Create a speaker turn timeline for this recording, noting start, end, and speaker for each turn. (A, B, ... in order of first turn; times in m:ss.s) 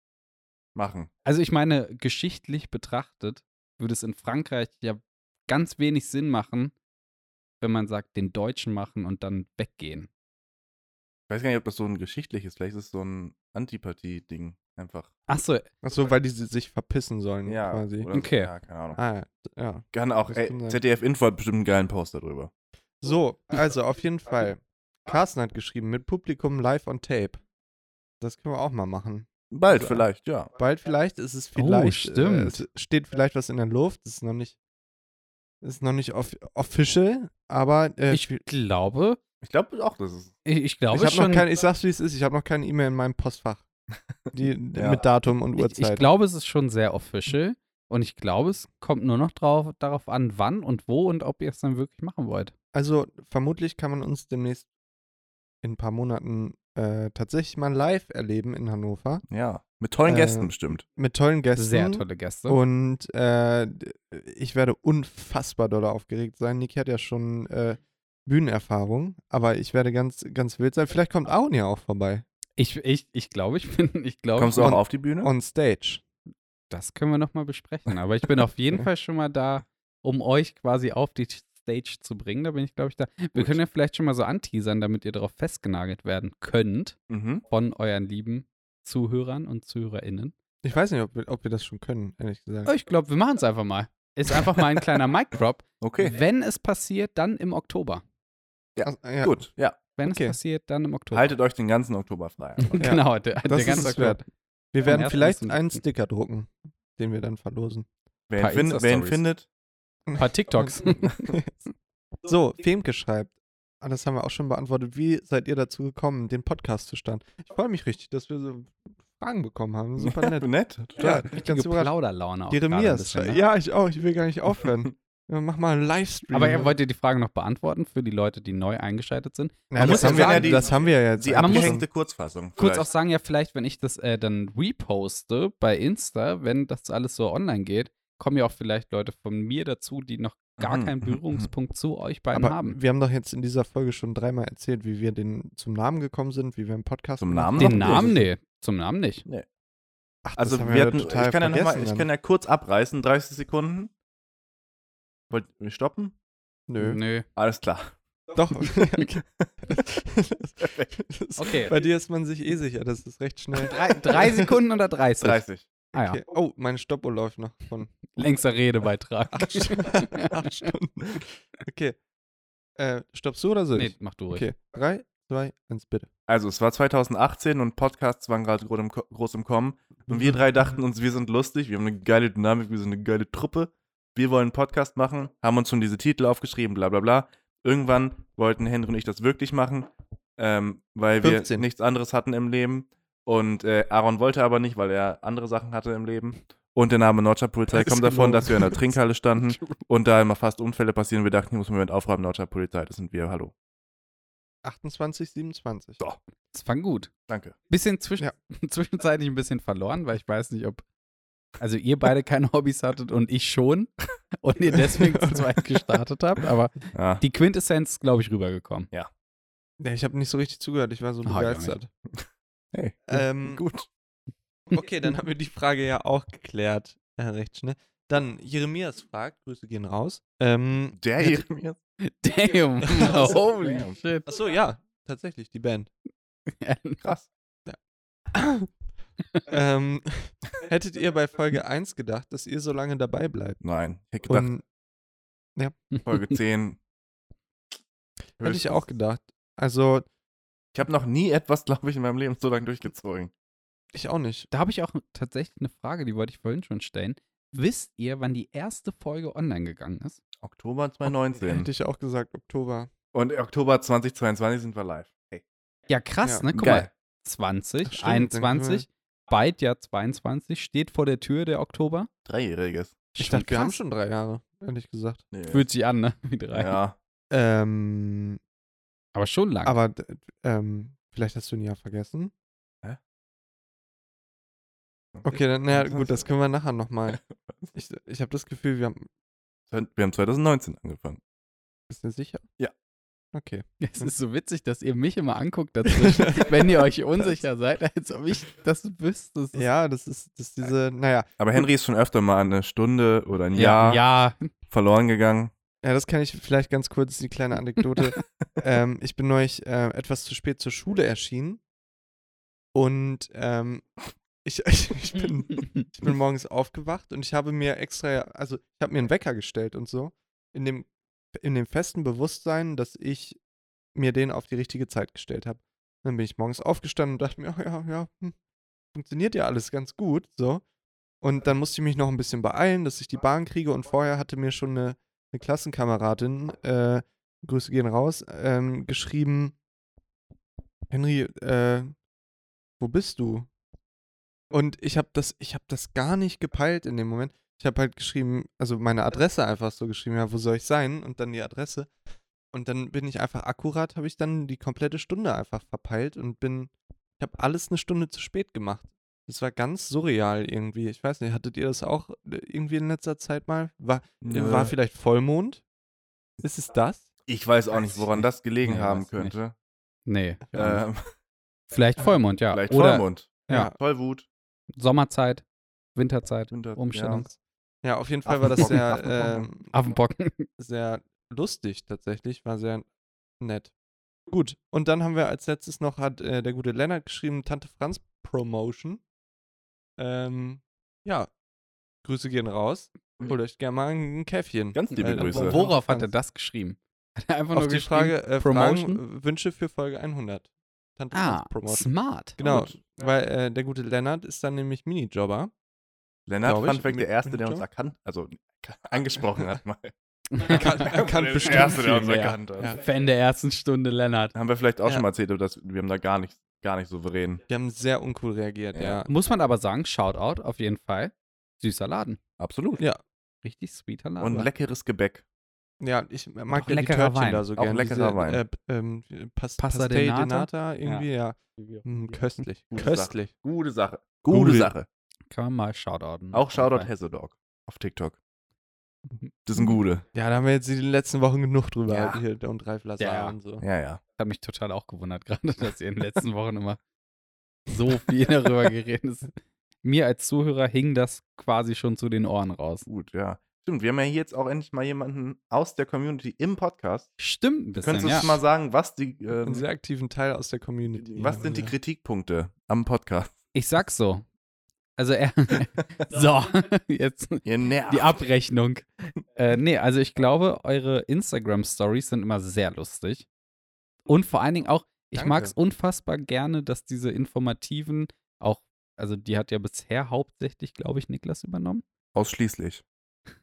0:00.7-0:01.1 A
0:01.2-0:06.7 B
0:07.6-0:10.1 B
0:11.3-0:15.1 A
0:15.3-0:15.7 B
0:15.8-0:18.1 C
0:17.4-0:19.0 A
0:18.1-0:18.5 B
0:18.9-0:20.8 C
0:19.9-0:22.5 A
0:23.0-0:27.4 C
0:28.2-0:34.6 C
0:29.5-0:30.5 A
0:31.6-0:32.6 B
0:35.6-0:38.4 C
0:38.1-0:39.2 B
0:39.4-0:40.3 A
0:40.4-0:41.4 B
0:40.9-0:43.6 C
0:44.3-0:46.0 C
0:44.7-0:45.0 A
0:45.6-0:52.5 B
0:52.7-0:54.7 C
0:55.6-0:59.2 C
0:59.3-1:00.8 A
1:00.0-1:12.2 C
1:01.6-1:02.6 B
1:12.6-1:14.7 B
1:14.4-1:15.3 A
1:14.6-1:16.0 C
1:16.7-1:27.0 B
1:27.1-1:27.4 A
1:27.5-1:30.3 B
1:30.6-1:32.7 C
1:32.6-1:38.0 B
1:35.8-1:36.2 A
1:38.8-1:39.8 A
1:38.8-1:39.5 C
1:40.0-1:41.3 B
1:40.0-1:40.4 C
1:41.1-1:42.8 A
1:42.6-1:44.2 B
1:42.8-1:44.2 C
1:44.7-1:47.9 C
1:44.8-1:45.8 B
1:48.3-1:49.5 A
1:48.4-1:49.2 B
1:50.1-1:51.5 C
1:50.2-1:51.1 B
1:52.2-2:01.9 C
2:00.0-2:01.3 A
2:01.3-2:03.4 B
2:02.5-2:06.7 C
2:06.3-2:10.6 B
2:09.7-2:11.9 C
2:09.8-2:12.9 A
2:11.3-2:11.8 B
2:12.6-2:22.8 B
2:20.6-2:21.5 A
2:22.3-2:28.3 C
2:27.2-2:28.1 A
2:27.6-2:29.2 B
2:30.2-2:32.1 C
2:30.4-2:33.9 A
2:35.3-2:36.1 A
2:36.7-2:37.0 C
2:36.8-2:37.2 B
2:37.4-2:38.0 A
2:38.3-2:44.5 C
2:40.6-2:40.9 A
2:41.4-2:41.7 B
2:43.6-2:45.4 B
2:45.2-2:45.7 A
2:45.9-2:48.1 C
2:45.9-2:46.2 B
2:48.1-2:50.5 B
2:49.3-2:52.0 C
2:52.8-2:56.1 C
2:53.7-2:54.5 B
2:56.3-3:23.5 A
3:11.2-3:11.6 C
3:17.7-3:18.9 C
3:19.5-3:19.8 B
3:24.6-3:26.0 C
3:26.5-3:27.1 B
3:27.3-3:27.6 A
3:27.7-3:30.8 B
3:31.6-3:38.9 B
3:34.7-3:35.5 C
3:36.9-3:37.2 A
3:39.8-3:41.9 C
3:41.2-3:41.7 B
3:42.1-3:43.9 A
3:43.1-3:43.6 C
3:44.7-3:51.1 C
3:50.9-3:51.8 A
3:52.0-3:54.3 B
3:52.9-3:53.4 C
3:53.5-3:54.0 A
3:54.2-3:55.9 C
3:56.5-3:57.0 B
3:57.0-3:57.3 A
3:58.3-3:58.7 C
3:59.5-4:03.6 C
4:03.6-4:04.5 A
4:04.3-4:04.6 C
4:05.9-4:06.4 B
4:06.0-4:06.8 A
4:08.4-4:10.0 C
4:08.4-4:08.9 A
4:10.7-4:13.3 A
4:13.9-4:14.5 C
4:14.5-4:20.2 B
4:20.4-4:21.7 A
4:21.4-4:22.9 C
4:23.1-4:25.4 A
4:25.9-4:32.1 B
4:26.5-4:26.9 A
4:27.9-4:28.8 C
4:32.2-4:33.0 A
4:33.1-4:33.8 B
4:33.2-4:35.2 C
4:35.3-4:35.6 A
4:35.5-4:36.7 B
4:36.5-4:37.0 A
4:37.3-4:38.4 C
4:39.1-4:39.8 B
4:39.6-4:42.3 C
4:45.1-4:46.2 A
4:45.2-4:47.2 C
4:47.1-4:47.6 A
4:47.7-4:49.1 C
4:49.7-4:51.2 A
4:51.9-4:52.5 C
4:53.3-4:54.1 C
4:53.8-4:59.6 B
4:55.8-4:56.8 C
4:59.5-5:01.6 C
5:01.4-5:04.0 A
5:03.5-5:04.5 B
5:04.7-5:05.5 A
5:05.8-5:11.6 C
5:08.2-5:08.4 A
5:12.7-5:23.4 C
5:23.9-5:28.4 C
5:28.9-5:30.6 C
5:31.2-5:39.6 C
5:40.9-5:41.9 C
5:42.8-5:43.5 C
5:44.5-5:51.9 C
5:52.5-6:05.6 C
6:04.2-6:04.7 A
6:06.4-6:07.1 C
6:07.3-6:09.5 A
6:08.1-6:09.4 B
6:10.0-6:10.8 B
6:10.5-6:11.1 A
6:11.7-6:13.7 B
6:12.5-6:14.3 A
6:13.5-6:13.7 C
6:14.8-6:17.3 B
6:16.5-6:17.3 A
6:17.8-6:19.7 C
6:18.2-6:19.5 A
6:18.4-6:19.0 B
6:19.7-6:20.5 B
6:20.6-6:22.8 C
6:23.4-6:23.7 C
6:24.3-6:29.0 C
6:30.0-6:31.3 C
6:32.0-6:36.1 C
6:34.7-6:35.6 A
6:34.9-6:39.0 B
6:37.5-6:45.5 C
6:41.1-6:42.4 B
6:42.4-6:42.8 A
6:46.3-6:49.9 A
6:46.4-6:47.6 C
6:50.3-6:50.9 B
6:50.4-6:52.8 C
6:50.5-6:52.7 A
6:51.4-6:54.3 B
6:54.3-6:57.4 A
6:57.5-6:59.1 C
6:58.7-6:59.0 A
6:59.1-7:02.2 B
7:02.4-7:02.8 A
7:03.4-7:04.5 B
7:04.2-7:05.2 A
7:05.8-7:13.3 C
7:06.5-7:07.4 B
7:07.6-7:08.4 A
7:09.6-7:11.0 B
7:11.6-7:12.2 B
7:12.7-7:14.9 A
7:14.3-7:14.7 C
7:15.3-7:16.9 B
7:16.3-7:18.2 A
7:19.4-7:20.0 A
7:20.1-7:23.6 C
7:21.9-7:22.2 B
7:23.0-7:23.4 B
7:23.6-7:24.0 A
7:24.2-7:26.8 B
7:27.7-7:29.3 B
7:29.8-7:32.9 B
7:32.9-7:37.1 A
7:37.2-7:38.4 B
7:37.8-7:39.6 A
7:39.4-7:41.7 C
7:41.0-7:43.3 A
7:43.5-7:44.2 B
7:45.0-7:53.3 B
7:47.4-7:48.1 A
7:54.1-8:01.8 B
7:55.1-7:55.5 C
8:02.1-8:02.8 A